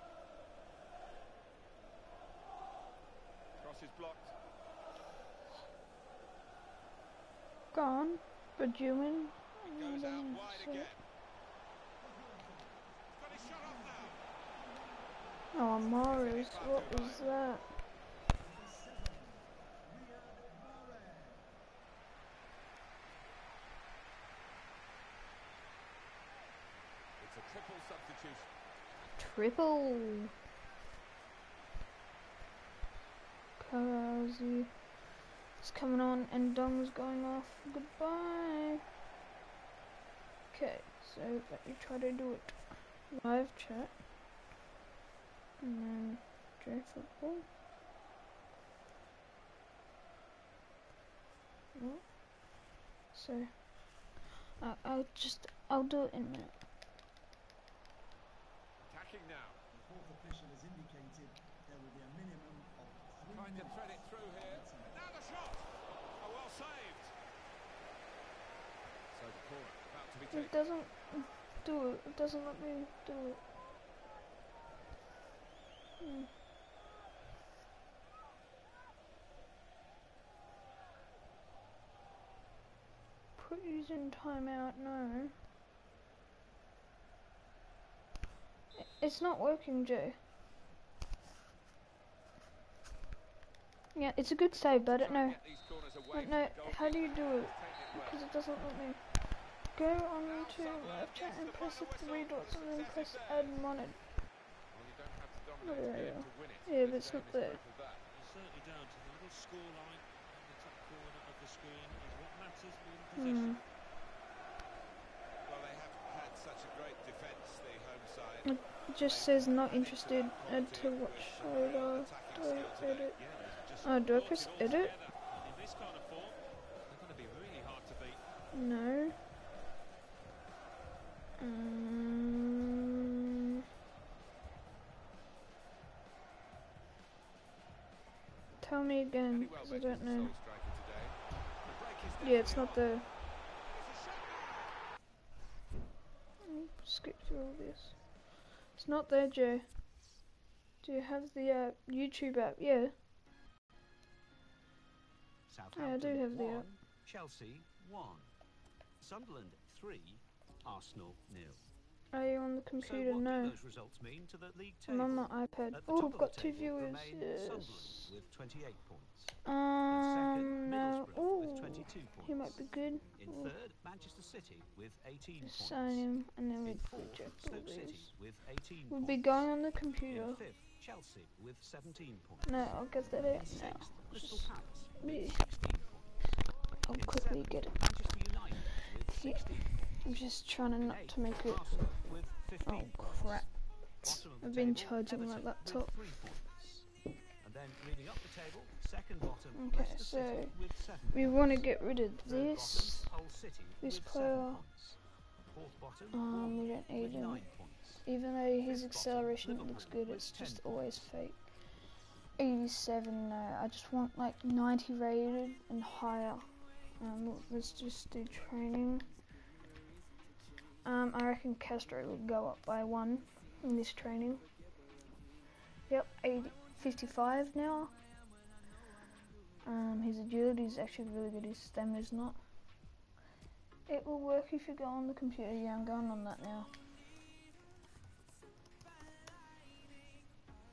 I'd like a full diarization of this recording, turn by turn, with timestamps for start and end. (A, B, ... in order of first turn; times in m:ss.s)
0:03.6-0:04.3 A
0:07.7-0:10.9 B
0:09.7-0:11.0 A
0:12.0-0:17.4 C
0:13.1-0:14.2 A
0:15.5-0:17.6 B
0:16.0-0:17.3 A
0:18.3-0:21.5 C
0:27.2-0:28.5 A
0:29.2-0:30.3 B
0:33.6-0:34.7 B
0:35.6-0:38.8 B
0:40.5-0:44.0 B
0:45.6-0:47.4 B
0:51.7-0:52.1 B
0:53.1-0:53.7 B
0:54.6-0:56.5 B
0:58.9-0:59.6 A
0:59.7-1:05.1 C
1:03.3-1:07.1 A
1:09.1-1:10.5 A
1:10.3-1:13.4 B
1:16.0-1:16.3 B
1:23.4-1:25.3 B
1:28.8-1:30.2 B
1:33.9-1:35.4 B
1:34.8-1:38.2 A
1:36.1-1:39.0 B
1:39.7-1:44.0 B
1:40.2-1:43.6 A
1:44.7-1:48.0 A
1:45.6-1:47.6 B
1:48.1-1:53.6 D
1:53.2-1:53.6 B
1:55.4-2:03.1 A
1:58.4-2:03.2 B
2:03.2-2:08.2 D
2:03.8-2:04.9 B
2:08.5-2:09.2 B
2:11.4-2:12.8 B
2:18.6-2:20.3 B
2:19.3-2:24.8 A
2:22.2-2:23.1 B
2:26.4-2:28.2 B
2:28.7-2:29.7 B
2:30.8-2:32.9 B
2:35.5-2:38.3 E
2:35.7-2:36.7 B
2:39.0-2:41.7 E
2:42.1-2:43.6 B
2:42.8-2:49.4 E
2:44.9-2:48.1 B
2:49.4-2:53.5 B
2:49.9-2:52.6 E
2:53.1-3:10.1 E
2:55.4-2:58.1 B
2:58.9-3:00.4 B
3:02.4-3:05.4 B
3:06.8-3:07.8 B
3:08.7-3:12.1 B
3:10.8-3:16.9 E
3:12.6-3:15.9 B
3:17.4-3:28.1 E
3:19.5-3:23.2 B
3:23.8-3:24.6 B
3:26.1-3:27.5 B
3:28.0-3:31.7 B
3:28.6-3:31.0 E
3:32.4-3:39.1 B
3:40.8-3:44.4 B
3:45.9-3:47.9 B
3:49.6-3:52.4 B
3:53.9-3:56.7 B